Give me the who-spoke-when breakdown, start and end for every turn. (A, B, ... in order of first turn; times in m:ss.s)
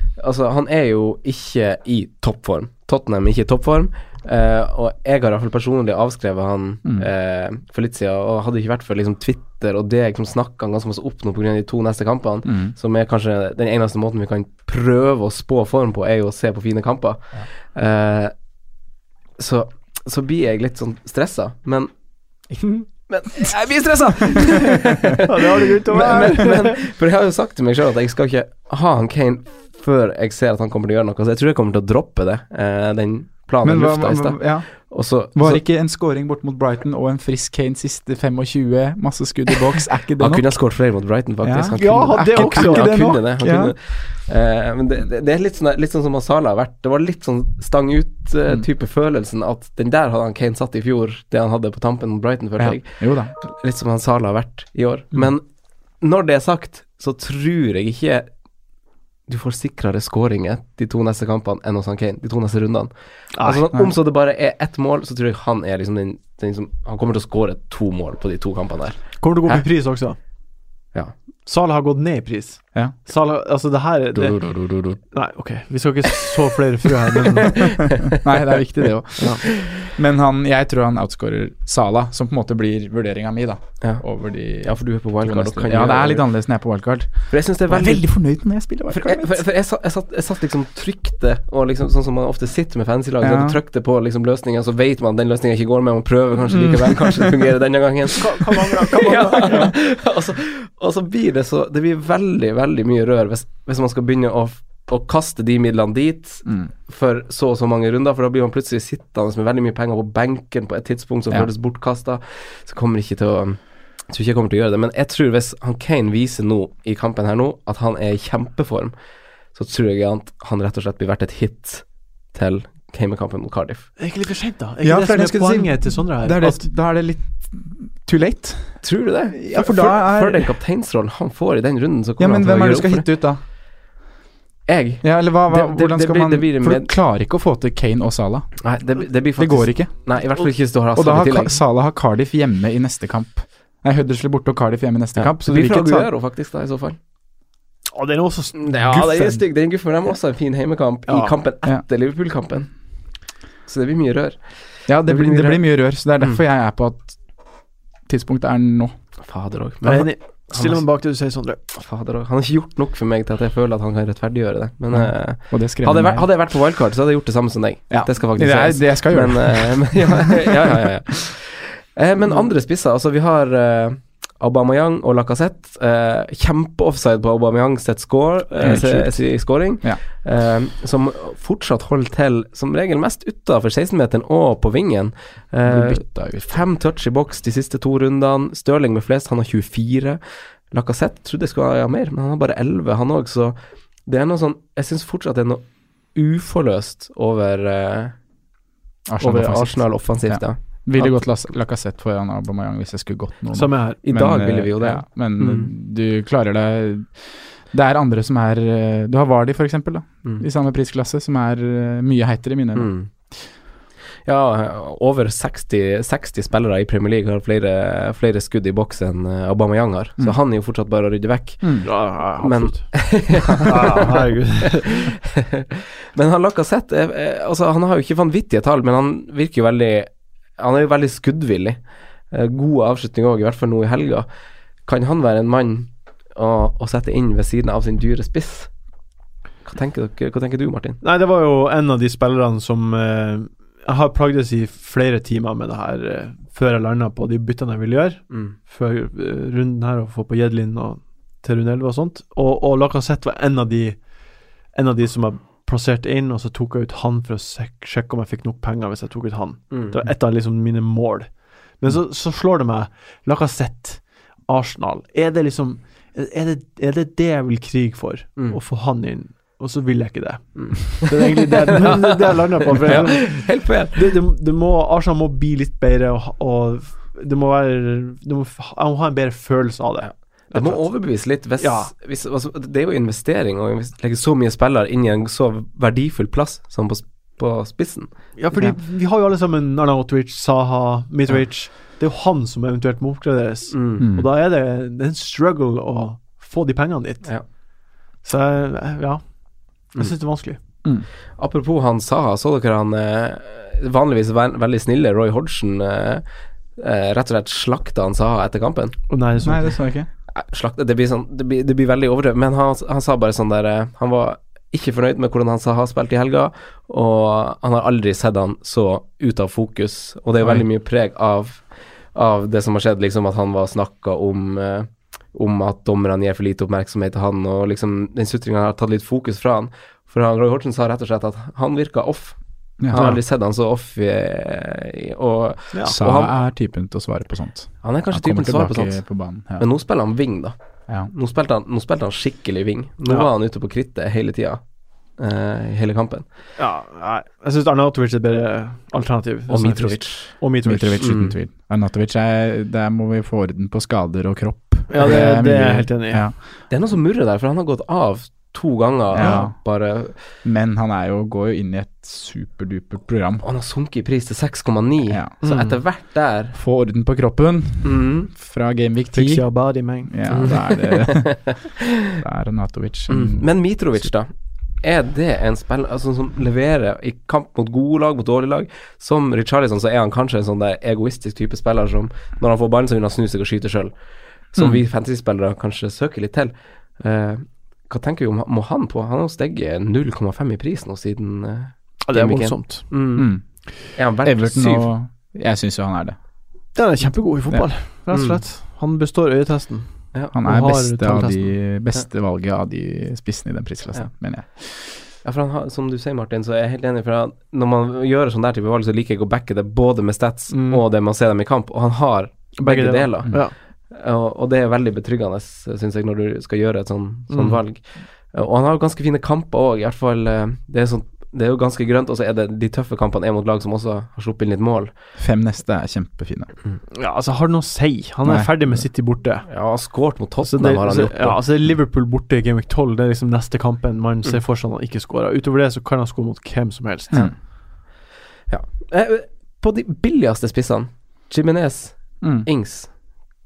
0:00.1-0:18.3 A
0:12.4-0:12.7 B
0:19.4-0:21.9 A
0:23.1-0:35.6 A
0:23.4-0:25.2 B
0:25.2-0:26.8 C
0:33.6-0:40.7 B
0:40.2-0:55.4 A
0:41.4-0:43.7 B
0:41.8-0:43.1 C
0:52.6-0:53.3 B
0:56.0-0:58.3 A
0:59.3-1:09.6 A
1:03.3-1:03.6 C
1:09.2-1:10.2 C
1:11.4-1:17.6 C
1:14.1-1:15.0 B
1:18.1-1:29.4 B
1:23.8-1:26.2 A
1:27.3-1:58.9 A
1:33.2-1:33.6 B
1:36.5-1:37.3 B
1:38.2-1:39.7 C
1:46.4-1:46.7 B
1:59.5-2:03.9 A
2:04.0-2:06.7 C
2:04.8-2:10.5 B
2:08.8-2:13.1 A
2:12.2-2:13.4 B
2:14.7-2:16.9 A
2:15.0-2:18.6 B
2:18.6-2:21.6 A
2:19.4-2:20.2 B
2:20.9-2:26.1 B
2:25.2-2:27.0 A
2:27.9-2:29.4 C
2:28.5-2:32.7 A
2:31.1-2:31.4 C
2:33.6-2:36.4 A
2:34.9-2:37.2 B
2:38.0-2:38.9 B
2:39.2-2:40.8 A
2:39.8-2:41.6 C
2:41.7-3:18.2 A
2:44.9-2:46.3 B
2:47.9-2:50.5 B
2:58.6-3:00.0 B
3:05.6-3:06.6 B
3:19.1-3:32.9 B
3:19.2-3:21.5 A
3:23.5-3:24.0 C
3:24.0-3:25.7 A
3:32.7-3:33.1 A
3:34.2-3:54.3 A
3:41.6-3:41.9 B
3:41.8-3:44.8 C
3:54.8-3:58.7 A
3:59.6-4:01.0 A
4:01.0-4:14.0 C
4:08.3-4:08.6 A
4:14.7-4:41.9 C
4:19.7-4:20.0 A
4:30.5-4:32.3 A
4:32.8-4:34.1 A
4:40.0-4:48.1 A
4:48.4-4:57.5 C
4:53.7-4:54.0 A
4:54.0-4:54.3 B
4:58.2-5:00.6 C
5:01.4-5:06.2 A
5:06.8-5:09.0 A
5:09.1-5:09.7 C
5:09.4-5:10.1 B
5:10.3-5:36.3 A
5:32.8-5:33.1 B
5:35.9-5:39.7 B
5:37.8-5:44.6 A
5:45.2-5:46.2 A
5:46.6-5:51.1 C
5:49.5-5:50.4 A
5:50.6-5:56.4 B
5:51.0-5:51.4 A
5:54.9-5:56.2 C
5:56.7-6:00.3 A
5:59.1-6:03.4 B
6:03.4-6:06.6 A
6:05.1-6:05.3 B
6:05.4-6:05.8 C
6:06.5-6:14.1 B
6:07.8-6:08.3 A
6:09.1-6:10.1 C
6:10.3-6:11.6 A
6:13.1-6:14.3 A
6:14.8-6:23.9 A
6:24.5-6:33.3 A
6:24.6-6:24.8 B
6:32.0-6:32.9 C
6:33.2-6:36.2 B
6:33.9-6:34.9 A
6:36.7-6:41.5 C
6:38.1-6:38.4 A
6:40.3-6:44.5 B
6:44.8-7:04.9 A
6:50.5-6:50.8 C
6:52.6-6:53.5 C
6:57.3-6:57.6 C
7:05.2-7:06.5 B
7:06.9-7:09.5 C
7:08.2-7:08.9 B
7:09.5-7:11.4 A
7:10.4-7:17.3 C
7:18.5-7:23.0 A
7:22.2-7:22.5 B